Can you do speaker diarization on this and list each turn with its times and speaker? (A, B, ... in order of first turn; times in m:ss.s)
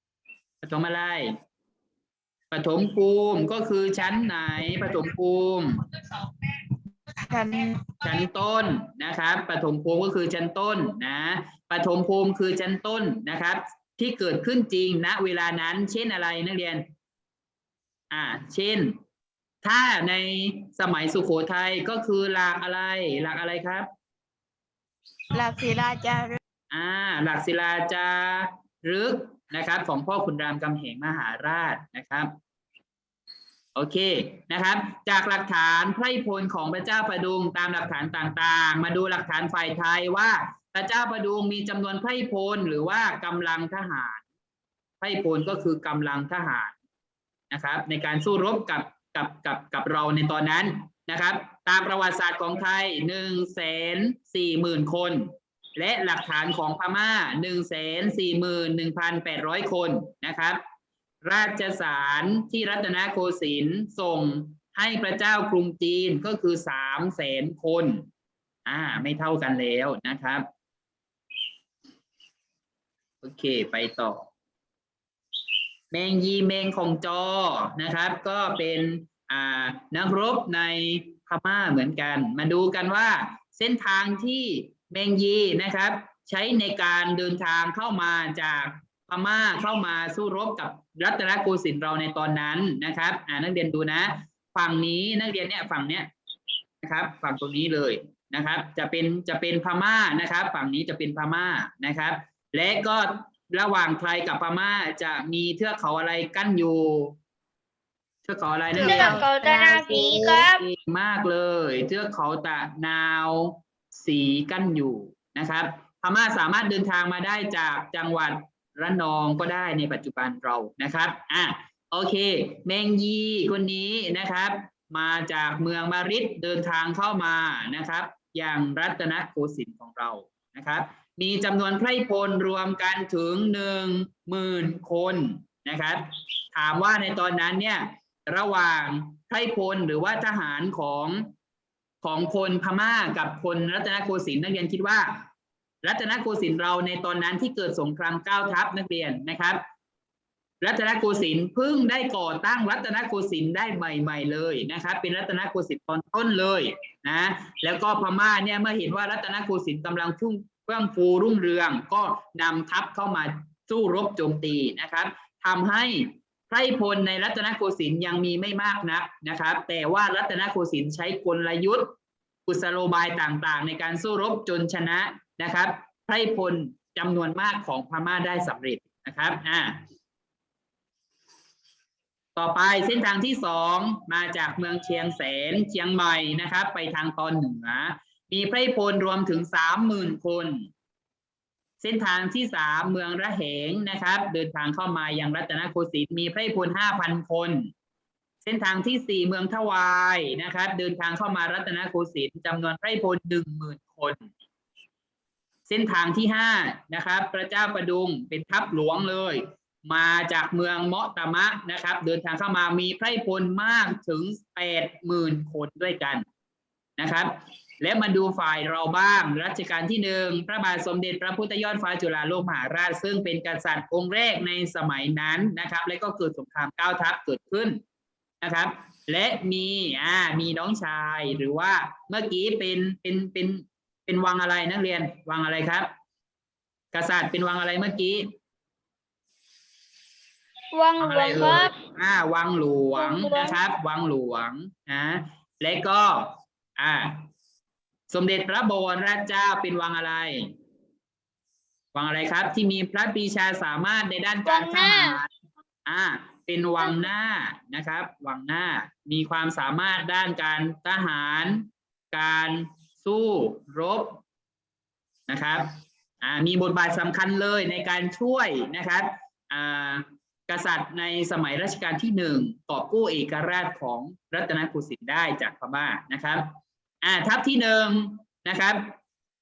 0:00.6-0:01.4 A
0:02.5-0:05.8 A
0:07.3-0:07.9 B
0:08.0-0:16.9 A
0:18.1-0:19.0 A
0:19.6-0:23.9 A
0:25.3-0:26.4 B
0:26.7-0:32.3 A
0:33.8-0:44.2 A
0:45.0-0:46.8 A
0:47.5-1:00.6 A
1:01.2-1:08.1 A
1:08.7-1:10.5 A
1:13.2-1:14.3 A
1:15.9-1:36.1 A
1:36.8-1:47.2 A
1:48.3-1:49.2 A
1:48.8-1:50.4 B
1:48.8-1:50.6 C
1:50.6-2:21.3 A
2:22.0-2:25.3 A
2:25.8-2:29.6 A
2:30.6-2:51.9 A
2:52.5-2:59.8 A
3:02.4-3:10.7 A
3:11.8-3:17.7 A
3:18.4-3:24.3 A
3:25.7-3:36.2 A
3:37.0-3:47.8 A
3:48.4-3:55.9 A
3:56.9-3:58.3 A
4:00.8-4:01.7 C
4:01.0-4:07.3 A
4:08.1-4:10.5 A
4:11.9-4:15.3 A
4:14.5-4:15.2 C
4:15.9-4:24.2 A
4:25.3-4:39.0 A